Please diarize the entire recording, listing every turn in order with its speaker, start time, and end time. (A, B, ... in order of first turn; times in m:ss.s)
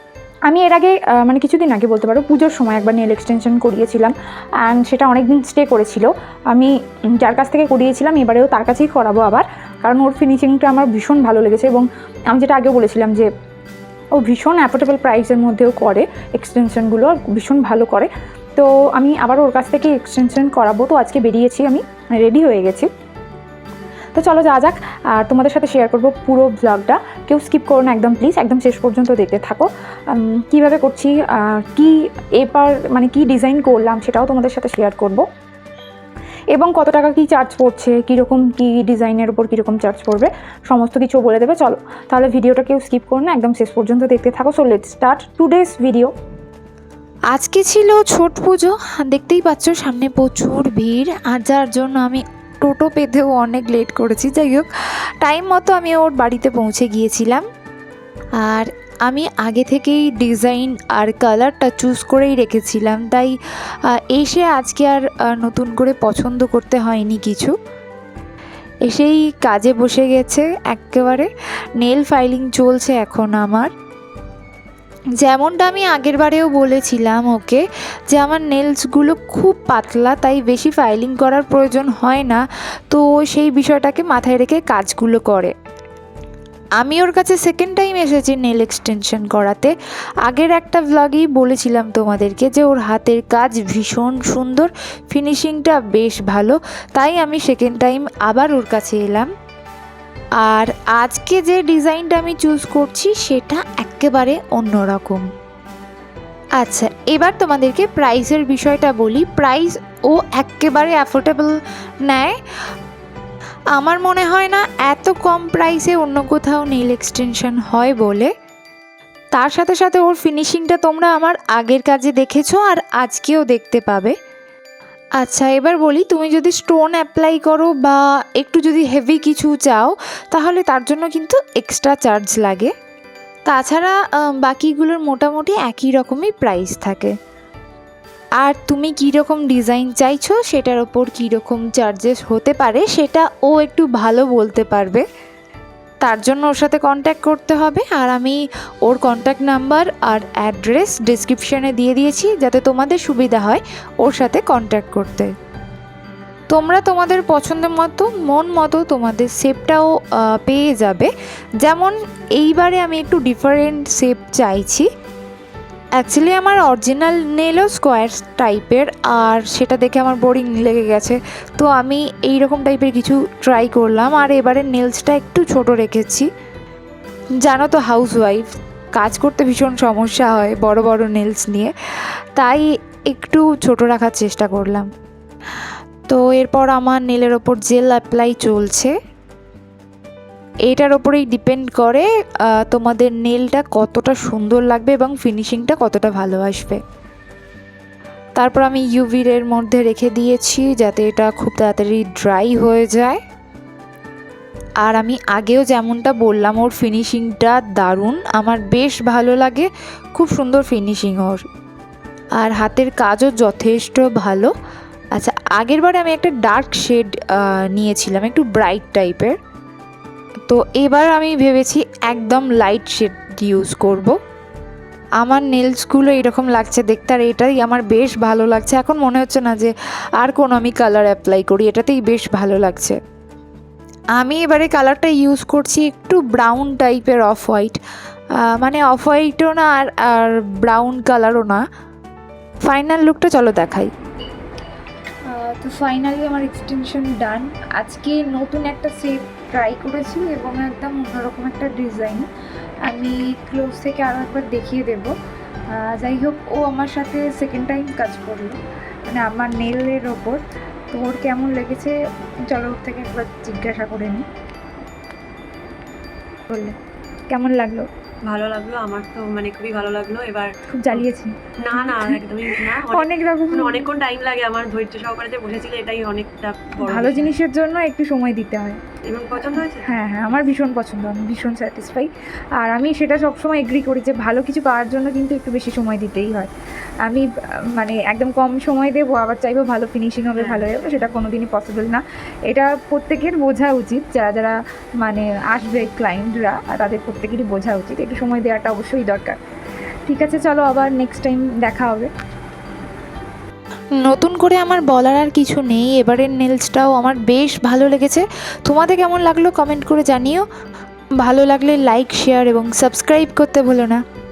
0:00.5-0:13.3 A
0:14.2-0:22.9 A
0:24.1-0:35.2 A
0:36.5-0:46.1 A
0:47.3-0:54.7 B
0:55.2-0:57.4 B
0:58.4-1:03.3 B
1:03.9-1:07.5 B
1:08.9-1:13.7 B
1:15.2-1:25.5 B
1:26.8-1:29.7 B
1:30.2-1:39.3 B
1:40.4-1:45.3 B
1:46.6-1:52.4 B
1:53.8-1:58.3 B
1:59.3-2:04.1 B
2:05.2-2:12.7 B
2:13.5-2:17.1 B
2:18.4-2:25.0 B
2:26.0-2:35.3 B
2:36.5-2:44.9 B
2:46.0-2:56.3 B
2:57.4-3:01.7 B
3:02.4-3:04.9 B
3:06.1-3:08.9 B
3:10.7-3:16.8 B
3:18.4-3:23.2 B
3:24.8-3:31.4 B
3:32.4-3:34.5 B
3:35.1-3:39.3 B
3:40.5-3:44.2 B
3:45.2-3:53.0 B
3:54.2-3:57.8 B
3:58.4-4:01.6 B
4:02.6-4:03.9 B
4:05.2-4:12.3 A
4:12.8-4:15.1 A
4:15.7-4:18.6 A
4:19.1-4:21.9 A
4:22.5-4:24.3 A
4:26.5-4:26.8 A
4:27.3-4:27.9 A
4:28.2-4:31.0 C
4:30.7-4:32.2 A
4:31.6-4:37.3 C
4:32.8-4:33.9 A
4:36.8-4:38.8 A
4:39.1-4:39.9 C
4:39.4-4:46.5 A
4:47.0-4:59.4 A
4:50.4-4:50.7 C
5:00.1-5:02.1 A
5:04.0-5:10.4 B
5:11.2-5:14.0 B